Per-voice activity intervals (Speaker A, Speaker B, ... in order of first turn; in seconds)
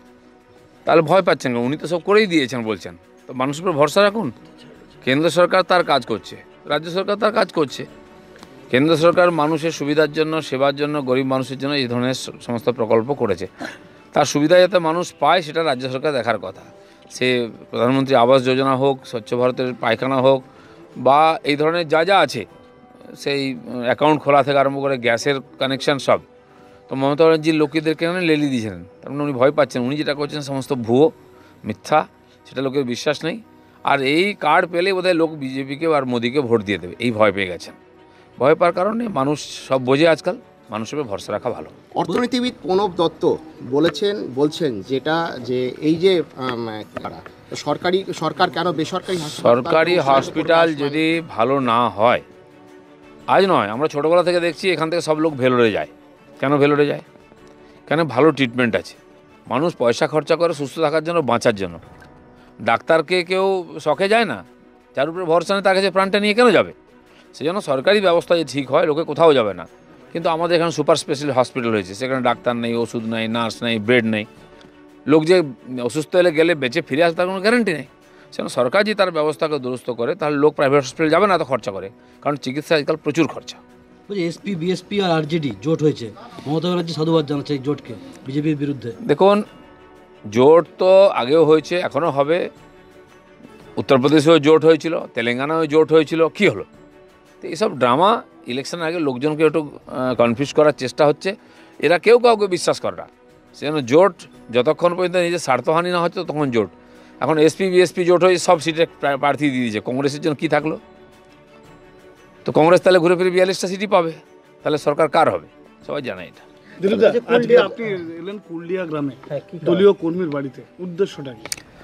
Speaker A: 0.8-4.3, 5.0-7.9, 8.7-13.5, 14.1-20.4, 21.0-22.4, 23.1-26.2, 26.9-31.1, 31.6-37.8, 38.4-41.7, 49.3-52.2, 53.3-57.0, 57.9-61.8, 62.6-64.4, 64.9-66.7, 67.3-74.3, 75.1-83.6, 89.0-89.4, 90.3-92.5, 93.8-96.7, 97.4-110.8, 112.4-116.4
Speaker B: 41.9-51.0
Speaker C: 84.1-88.9, 117.1-117.7
Speaker D: 116.8-121.5